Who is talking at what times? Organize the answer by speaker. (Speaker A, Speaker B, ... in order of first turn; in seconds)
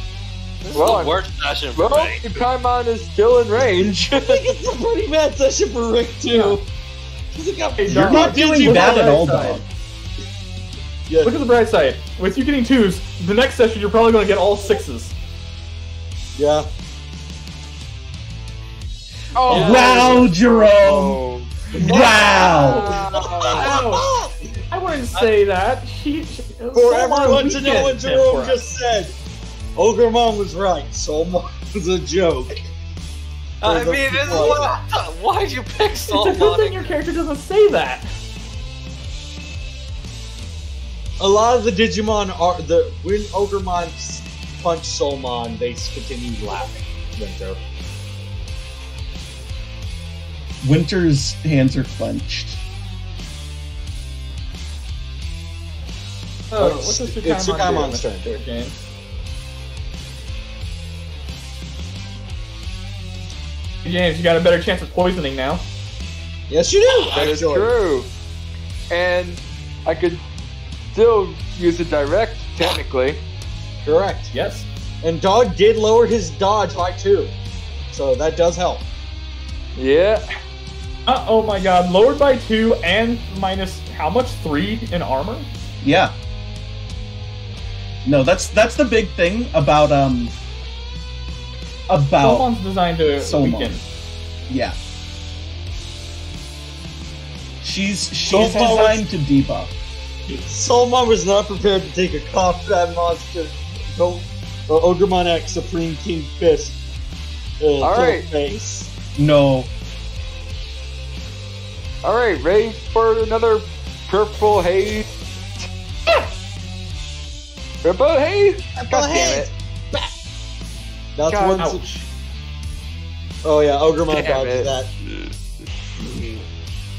Speaker A: 0.6-2.2, 19.5-20.2, 33.6-36.9
Speaker B: 0.7-1.1, 1.8-4.4, 19.3-23.8, 67.1-68.1, 68.9-70.2, 70.9-73.2, 79.8-80.2, 107.8-108.3, 112.0-115.1, 117.8-119.5, 121.3-121.6, 124.1-124.7
Speaker C: 3.9-6.6, 7.3-9.0, 11.1-11.3, 16.4-16.7, 21.7-24.3, 26.7-29.1, 29.8-32.7, 33.6-34.8, 41.2-47.6, 56.6-58.3, 66.5-67.7, 73.8-74.3, 75.0-77.3, 77.9-78.8, 98.3-99.0, 100.3-106.8, 107.6-108.9, 118.8-120.1, 121.2-121.8, 123.4-124.9
Speaker D: 6.3-6.6, 7.8-9.6, 11.2-15.1, 21.8-23.0, 23.5-24.1, 24.7-28.6, 36.0-38.1, 56.5-58.8, 63.8-65.6, 74.3-74.7, 81.0-85.5, 92.2-93.8, 98.3-99.0
Speaker E: 7.9-9.6, 19.5-21.2, 21.8-22.9, 50.6-52.6, 85.8-86.1, 88.0-90.3, 91.9-92.5, 93.2-93.8, 94.5-94.8, 97.6-99.7, 109.1-109.7